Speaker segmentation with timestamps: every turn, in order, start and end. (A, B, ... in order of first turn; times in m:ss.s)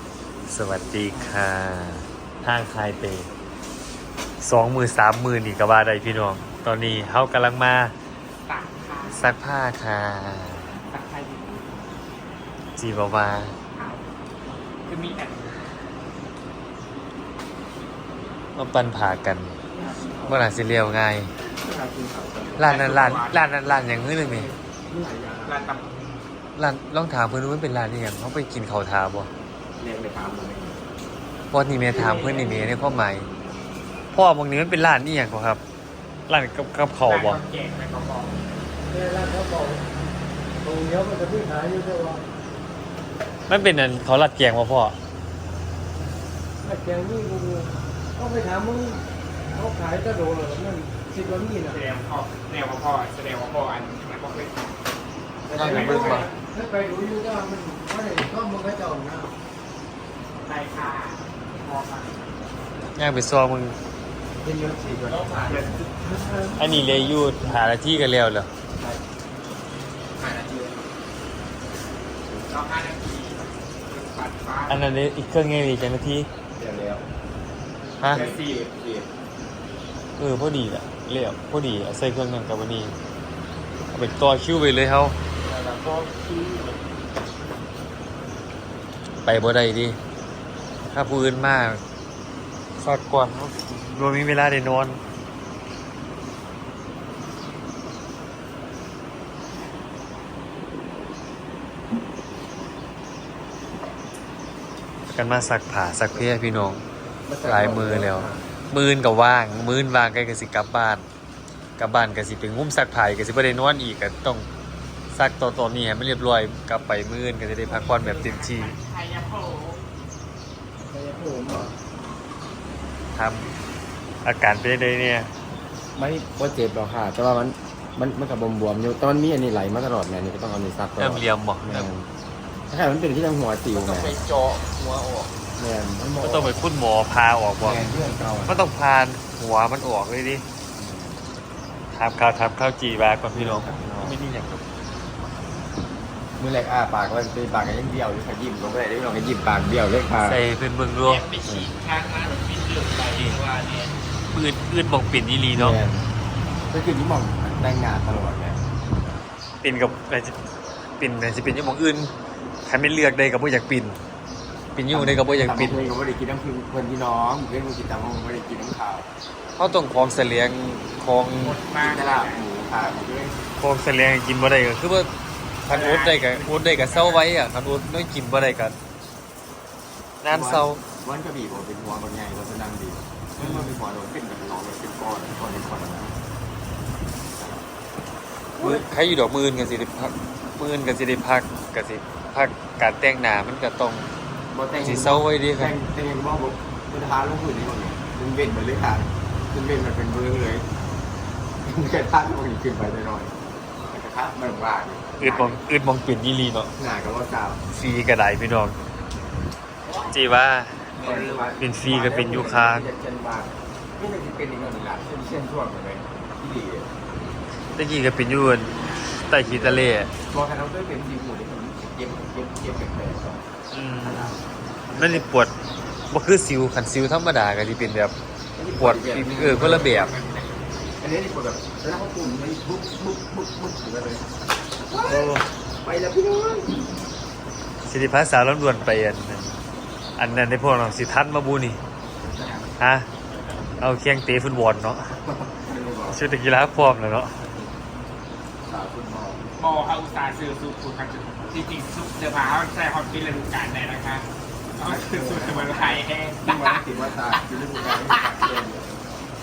0:00.5-0:03.3 A
0:04.4-0:07.9 A
0:08.5-0:09.3 B
0:09.1-0:10.8 A
0:10.9-0:11.8 B
0:12.8-0:13.5 A
0:13.7-0:14.1 B
0:14.8-0:15.7 B
0:18.5-0:19.6 A
0:19.7-0:20.3 C
0:19.7-0:20.3 B
0:20.3-0:21.3 A
0:21.4-0:22.7 C
0:22.6-0:24.5 A
0:22.6-0:23.5 B
0:24.8-0:25.7 C
0:25.4-0:26.2 B
0:26.6-0:29.3 A
0:29.8-0:30.8 C
0:31.5-0:33.3 A
0:34.1-0:35.6 A
0:36.3-0:37.4 A
0:37.0-0:38.4 B
0:38.9-0:39.8 D
0:40.6-0:42.2 D
0:43.5-0:45.0 A
0:46.6-0:51.8 D
0:51.6-0:54.8 B
0:55.5-0:59.3 D
0:55.5-0:56.3 B
0:55.5-0:56.3 A
1:00.4-1:02.5 B
1:03.0-1:03.8 A
1:04.4-1:07.2 C
1:05.2-1:05.6 B
1:06.6-1:08.5 A
1:10.2-1:10.8 C
1:12.4-1:15.0 B
1:14.7-1:16.3 A
1:16.6-1:17.0 C
1:18.0-1:18.3 A
1:18.1-1:18.4 B
1:18.1-1:19.1 C
1:20.2-1:23.0 A
1:23.9-1:25.2 A
1:25.5-1:26.7 C
1:29.2-1:30.0 A
1:30.9-1:31.8 A
1:32.8-1:35.0 A
1:45.1-1:46.8 A
1:47.3-1:48.5 C
1:47.4-1:51.1 A
1:51.8-1:54.5 A
1:55.1-1:58.7 A
1:57.6-1:59.8 B
2:00.8-2:01.8 C
2:03.2-2:03.5 A
2:04.2-2:05.3 A
2:06.0-2:12.1 C
2:11.0-2:11.9 A
2:12.7-2:14.2 C
2:14.8-2:15.2 A
2:15.6-2:16.7 C
2:16.2-2:17.8 A
2:17.6-2:18.7 C
2:18.5-2:20.4 A
2:20.8-2:21.2 C
2:21.9-2:24.7 A
2:23.3-2:24.2 C
2:26.4-2:30.4 C
2:30.2-2:31.2 A
2:31.0-2:34.0 B
2:33.2-2:33.4 A
2:34.3-2:35.8 A
2:35.5-2:36.1 C
2:36.7-2:38.6 C
2:39.6-2:40.4 A
2:41.0-2:42.1 A
2:42.7-2:44.0 A
2:44.7-2:45.9 A
2:44.9-2:49.1 C
2:49.6-2:51.6 A
2:51.4-2:52.5 B
2:51.8-2:53.4 C
2:53.6-2:55.1 A
2:55.6-2:58.8 A
2:55.7-2:57.3 B
3:00.2-3:00.8 A
3:00.3-3:06.2 C
3:03.4-3:03.8 A
3:08.6-3:14.1 A
3:14.5-3:20.7 C
3:14.8-3:15.7 A
3:21.6-3:23.3 C
3:23.8-3:25.6 C
3:25.2-3:26.7 A
3:26.8-3:27.6 C
3:27.7-3:28.8 A
3:30.0-3:30.9 A
3:31.0-3:36.9 C
3:31.1-3:31.4 B
3:31.6-3:32.9 A
3:37.8-3:40.1 A
3:39.4-3:43.4 C
3:43.7-3:44.4 A
3:44.0-3:45.3 C
3:45.0-3:45.5 A
3:46.1-3:48.2 A
3:48.6-3:50.1 C
3:48.8-3:50.1 A
3:49.6-3:50.9 B
3:51.0-3:54.3 C
3:54.9-3:56.9 C
3:55.0-3:55.4 A
3:57.8-3:59.6 A
4:00.2-4:01.8 A
4:02.2-4:02.7 C
4:02.8-4:03.1 A
4:03.8-4:05.2 A
4:05.2-4:06.2 C
4:06.1-4:07.4 A
4:08.7-4:09.5 C
4:09.6-4:18.4 B
4:14.7-4:19.2 C